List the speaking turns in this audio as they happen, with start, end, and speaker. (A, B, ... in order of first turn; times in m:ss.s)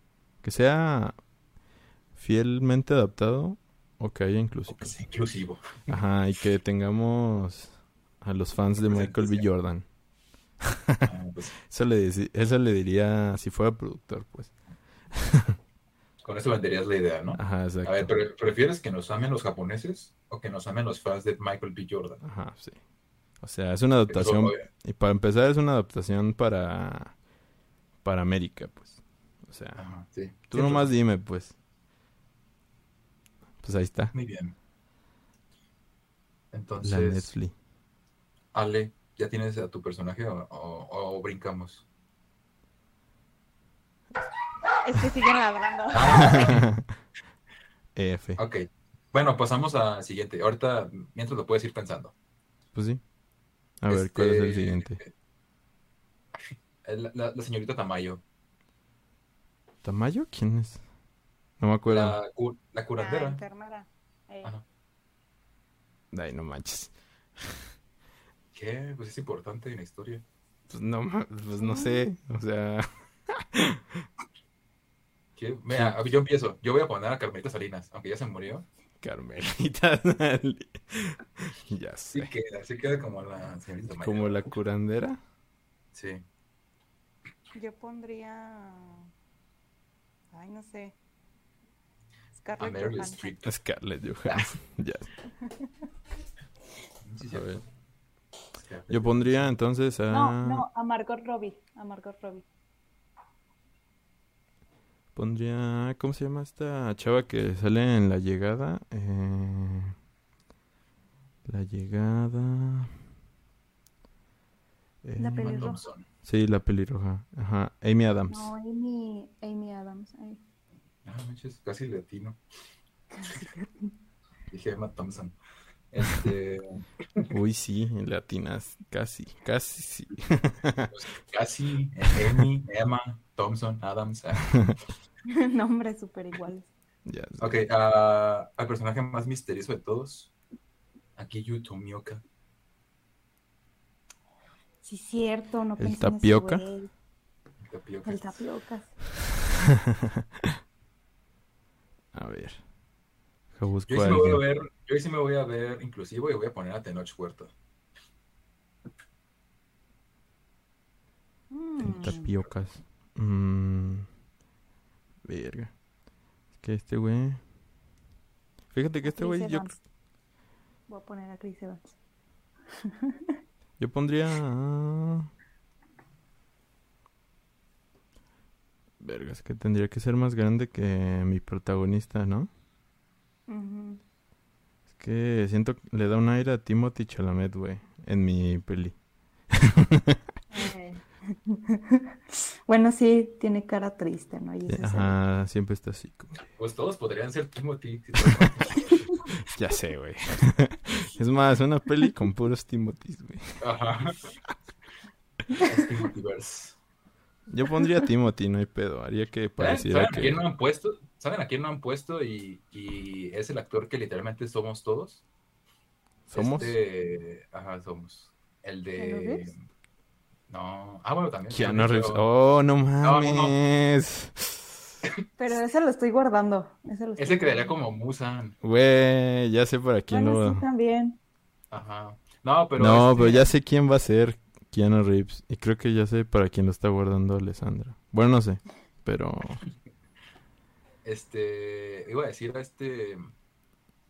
0:00.4-0:01.2 A
0:02.1-0:04.9 A
0:04.7-0:06.0 B
0:05.9-0:09.9 A
0:08.8-0:09.4 B
0:10.6-0:11.1 A
0:11.0-0:11.5 B
0:11.7-0:14.5 A
0:15.1-0:15.6 A
0:16.2-0:22.2 B
0:17.4-0:18.1 A
0:22.2-0:22.8 A
0:23.4-0:27.2 A
0:24.1-0:24.7 B
0:28.0-0:29.8 A
0:29.8-0:30.9 B
0:30.5-0:31.6 A
0:33.6-0:34.1 A
0:34.1-0:34.5 B
0:36.5-0:37.3 B
0:36.8-0:37.5 A
0:38.5-0:41.8 B
0:44.8-0:46.4 C
0:45.9-0:46.6 B
0:46.2-0:46.9 A
0:47.9-0:48.4 A
0:48.4-0:52.1 B
0:52.7-0:53.0 A
0:53.8-0:55.0 A
0:53.9-0:55.1 B
0:56.3-0:58.2 B
0:59.8-1:00.8 A
1:01.6-1:02.2 A
1:01.9-1:03.4 B
1:03.0-1:04.5 C
1:06.1-1:07.7 A
1:08.5-1:10.2 B
1:10.7-1:14.1 A
1:11.6-1:12.1 C
1:15.4-1:18.6 B
1:15.7-1:16.0 A
1:19.0-1:22.3 A
1:22.1-1:24.5 B
1:23.9-1:25.2 A
1:25.9-1:26.2 B
1:27.5-1:29.1 C
1:30.3-1:31.0 C
1:32.3-1:33.3 C
1:32.6-1:33.5 B
1:33.4-1:35.1 A
1:34.3-1:34.5 B
1:37.0-1:37.6 B
1:37.2-1:37.6 A
1:38.6-1:39.5 B
1:38.9-1:40.6 A
1:40.1-1:42.4 C
1:45.1-1:49.9 A
1:51.4-1:53.0 A
1:55.0-1:55.6 A
1:55.2-1:55.8 C
1:55.4-1:56.0 B
1:56.2-1:58.5 A
1:58.3-2:00.4 C
2:01.0-2:02.4 B
2:03.1-2:03.9 C
2:04.5-2:05.3 B
2:05.9-2:07.3 B
2:07.3-2:10.9 A
2:10.9-2:14.7 B
2:15.2-2:16.7 C
2:17.0-2:17.6 A
2:17.4-2:20.3 B
2:21.2-2:22.2 B
2:24.8-2:26.9 C
2:25.8-2:26.6 A
2:27.6-2:28.4 B
2:28.0-2:29.0 C
2:30.0-2:30.4 A
2:32.1-2:32.6 A
2:33.5-2:34.4 A
2:33.9-2:37.5 B
2:41.5-2:42.3 C
2:41.8-2:44.1 A
2:45.2-2:45.8 A
2:46.5-2:47.4 A
2:48.7-2:49.8 A
2:49.0-2:49.8 C
2:50.9-2:52.0 C
2:52.8-2:53.3 C
2:53.8-2:55.3 A
2:59.0-3:02.5 A
3:03.5-3:04.0 C
3:04.9-3:09.0 A
3:09.5-3:10.2 A
3:10.5-3:12.0 C
3:12.7-3:15.2 C
3:14.7-3:16.4 A
3:16.6-3:19.0 B
3:18.2-3:18.5 A
3:18.8-3:19.1 C
3:19.3-3:23.6 A
3:23.6-3:24.4 B
3:25.6-3:26.8 B
3:27.5-3:30.4 A
3:29.6-3:35.2 B
3:36.3-3:36.8 A
3:36.3-3:39.6 B
3:39.0-3:39.5 C
3:40.5-3:42.2 B
3:41.5-3:45.0 A
3:43.0-3:43.6 B
3:45.4-3:47.7 C
3:47.2-3:48.6 B
3:48.6-3:50.6 A
3:50.1-3:51.2 C
3:51.7-3:53.5 B
3:52.8-3:59.6 A
4:01.0-4:03.3 B